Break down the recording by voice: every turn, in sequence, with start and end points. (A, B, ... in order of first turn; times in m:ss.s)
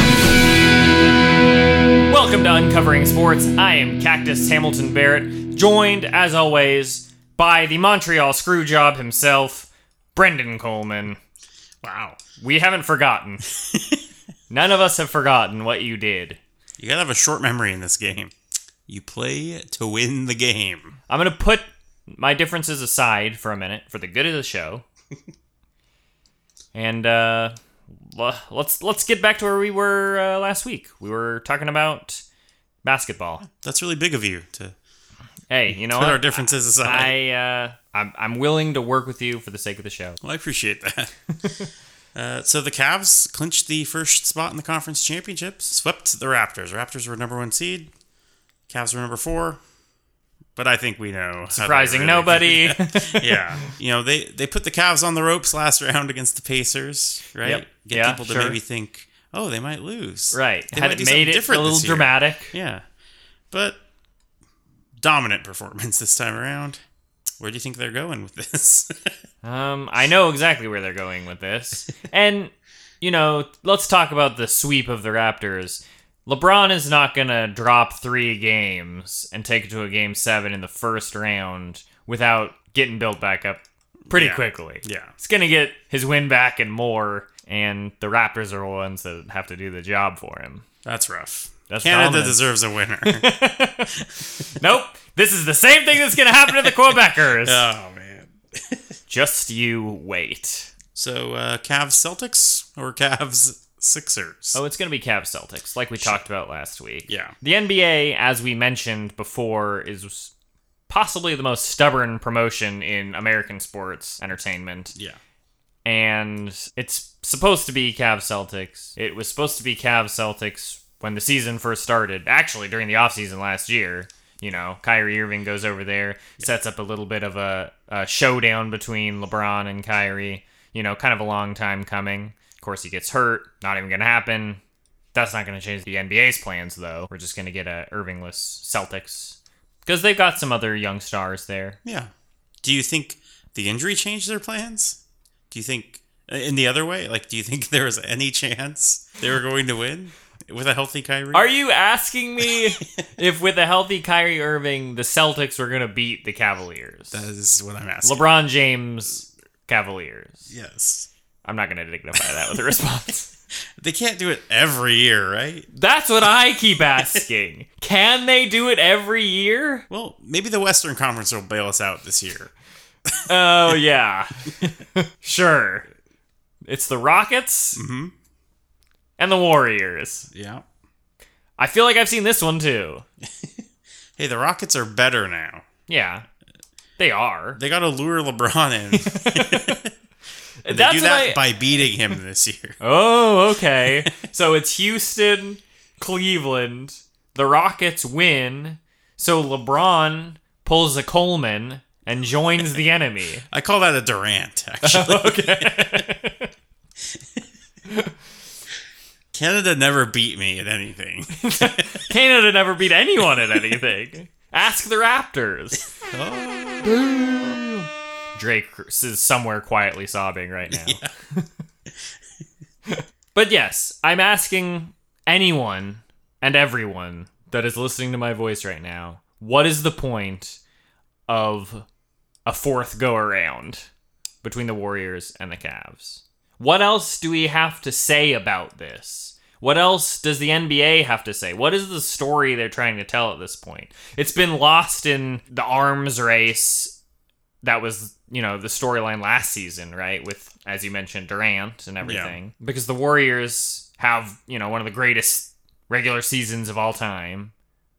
0:02.1-0:11.2 A
0:11.8-0:12.2 B
0:12.4-0:13.4 A
0:13.7-0:14.0 B
0:14.5-0:16.4 A
0:16.8-0:18.3 B
0:18.8-0:21.0 B
0:21.1-0:24.8 A
0:26.7-0:32.2 A
0:32.8-0:33.4 A
0:33.4-0:34.7 B
0:35.5-0:40.2 A
0:35.7-0:37.2 B
0:40.2-0:41.1 B
0:42.1-0:47.9 B
0:48.7-0:49.6 B
0:50.6-1:02.8 B
0:51.5-0:53.7 A
0:57.4-0:58.6 A
1:00.3-1:02.5 A
1:03.5-1:03.8 B
1:05.0-1:06.8 B
1:07.4-1:09.2 B
1:09.4-1:30.6 A
1:24.1-1:25.1 B
1:30.8-1:33.3 B
1:31.7-1:32.4 A
1:33.0-1:37.6 A
1:36.5-1:38.8 B
1:39.1-1:40.7 A
1:40.9-1:44.6 B
1:44.5-1:50.3 A
1:47.1-1:47.3 B
1:50.9-1:54.9 A
1:55.8-2:14.6 A
2:15.1-2:21.8 A
2:21.8-2:22.1 B
2:22.6-2:25.0 B
2:25.5-2:31.5 B
2:31.3-2:37.2 A
2:37.1-2:38.2 B
2:38.0-2:40.5 A
2:40.5-2:41.1 B
2:41.4-2:43.3 A
2:42.2-2:42.7 B
2:43.7-2:45.7 B
2:45.7-2:49.8 A
2:47.0-2:47.2 B
2:49.9-2:52.5 B
2:53.1-2:53.7 B
2:53.2-2:55.9 A
2:56.6-2:57.8 A
2:57.8-2:58.1 B
2:59.2-3:00.3 A
3:00.3-3:00.6 B
3:01.6-3:03.0 A
3:04.2-3:05.6 B
3:05.9-3:06.2 A
3:07.0-3:07.6 A
3:07.6-3:09.9 B
3:08.9-3:09.8 A
3:10.6-3:11.4 A
3:10.7-3:12.8 B
3:12.8-3:23.4 A
3:23.5-3:26.1 B
3:24.8-3:26.5 A
3:29.3-3:32.0 B
3:31.4-3:35.9 A
3:36.1-3:36.9 B
3:36.8-3:41.5 A
3:40.7-3:41.1 B
3:42.9-3:50.6 A
3:51.3-3:51.8 A
3:52.4-3:53.9 A
3:54.4-4:07.0 A
4:07.6-4:17.5 A
4:12.0-4:12.4 B